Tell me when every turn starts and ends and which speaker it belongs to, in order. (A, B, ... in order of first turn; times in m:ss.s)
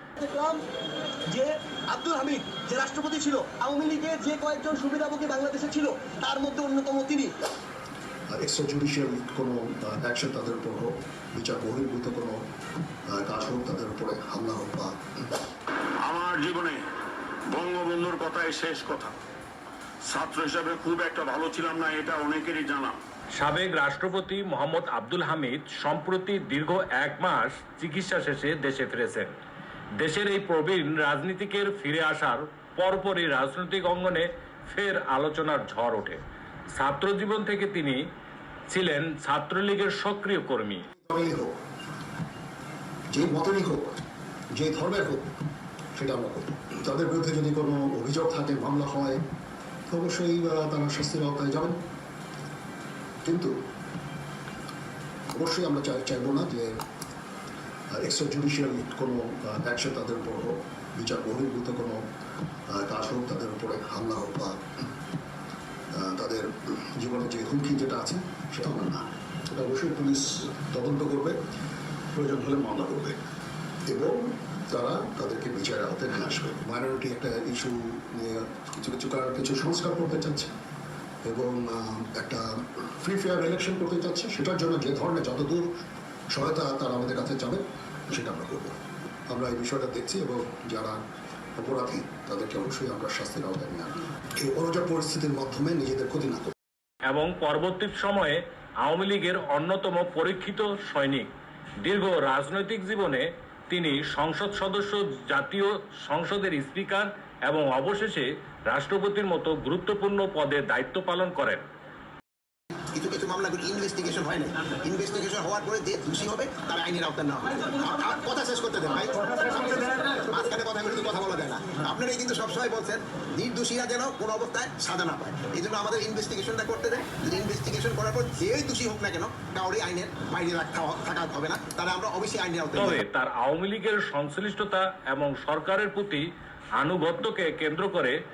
0:00.2-0:00.6 A
0:01.3-0:07.3 A
0:08.3-0:12.4 B
0:13.1-0:14.9 B
0:16.0-0:16.8 C
0:17.5-0:19.2 C
0:20.0-0:23.0 C
0:23.4-0:29.3 D
0:30.0-0:36.2 D
0:36.7-0:38.0 D
0:38.7-0:40.8 D
0:41.0-0:41.6 B
0:43.1-0:44.0 B
0:44.5-0:45.3 B
0:45.9-0:49.2 B
0:49.9-0:51.8 B
0:53.2-0:53.5 B
0:55.3-0:56.8 B
0:57.9-1:02.0 B
1:02.7-1:04.6 B
1:05.9-1:11.4 B
1:12.1-1:13.2 B
1:13.9-1:20.5 B
1:21.2-1:25.7 B
1:26.3-1:28.7 B
1:29.3-1:31.0 B
1:31.6-1:36.5 B
1:37.1-1:41.3 D
1:41.8-1:51.6 D
1:52.9-2:13.0 E
2:12.8-2:16.2 D
2:16.8-2:18.2 D